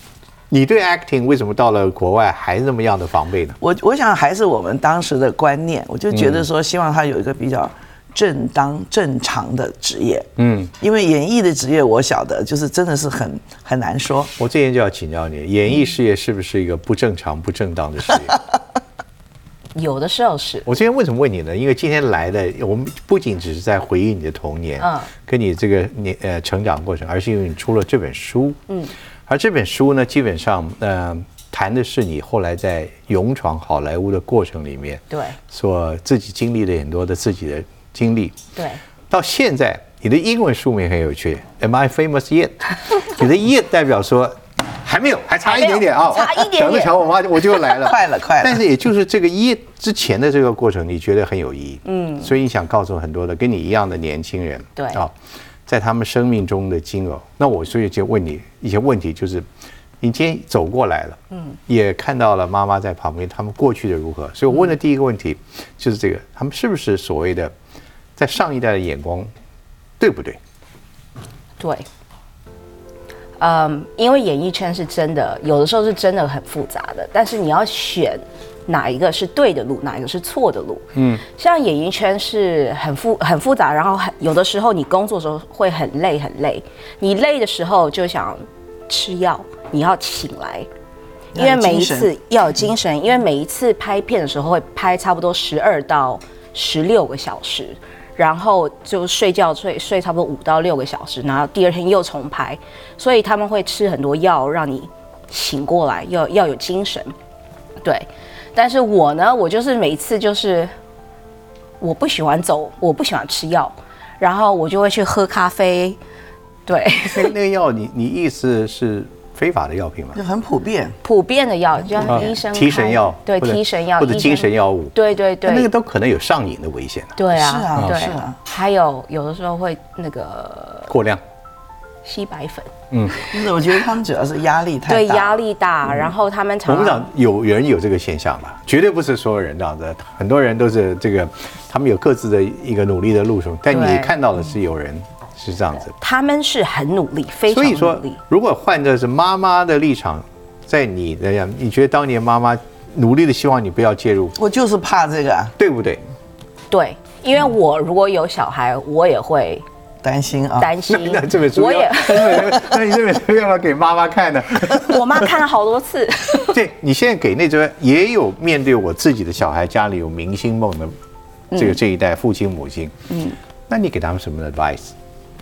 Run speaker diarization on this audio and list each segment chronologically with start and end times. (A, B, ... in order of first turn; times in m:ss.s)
0:00.5-0:03.6 A
0:03.6-0:10.3 B
0:06.1-0:06.4 A
0:10.4-0:10.7 A
0:10.8-0:14.3 B
0:14.4-0:18.4 A
0:19.7-0:20.7 C
0:20.6-0:28.6 A
0:24.8-0:25.1 C
0:29.3-0:38.4 A
0:35.1-0:35.4 C
0:39.1-0:55.1 A
0:45.4-0:46.9 C
0:47.8-0:48.6 B
0:51.8-0:52.3 C
0:54.8-0:55.0 C
0:55.7-0:59.4 A
1:00.0-1:07.5 A
1:08.2-1:09.3 A
1:10.0-1:10.4 A
1:11.6-1:11.8 C
1:13.4-1:30.7 C
1:20.9-1:21.2 A
1:31.3-1:32.1 B
1:31.3-1:47.1 C
1:47.8-1:50.7 C
1:51.8-1:56.0 C
1:56.7-1:57.3 C
1:57.1-2:00.2 A
2:00.1-2:01.0 B
2:01.0-2:05.7 C
2:02.0-2:02.3 B
2:02.1-2:07.1 A
2:07.2-2:10.9 C
2:07.3-2:08.4 B
2:10.9-2:11.2 A
2:12.0-2:12.7 C
2:12.9-2:13.3 A
2:13.2-2:15.4 B
2:14.9-2:17.0 C
2:16.6-2:25.9 A
2:23.7-2:24.1 C
2:26.0-2:28.2 C
2:27.5-2:34.4 A
2:34.4-2:35.5 B
2:35.6-2:36.0 A
2:36.7-2:39.6 C
2:40.0-2:40.7 B
2:40.6-2:42.7 C
2:40.9-2:45.2 A
2:44.7-2:46.6 C
2:46.4-2:50.9 A
2:51.5-2:51.8 C
2:51.5-2:53.0 A
2:53.1-2:53.4 C
2:53.7-2:54.9 A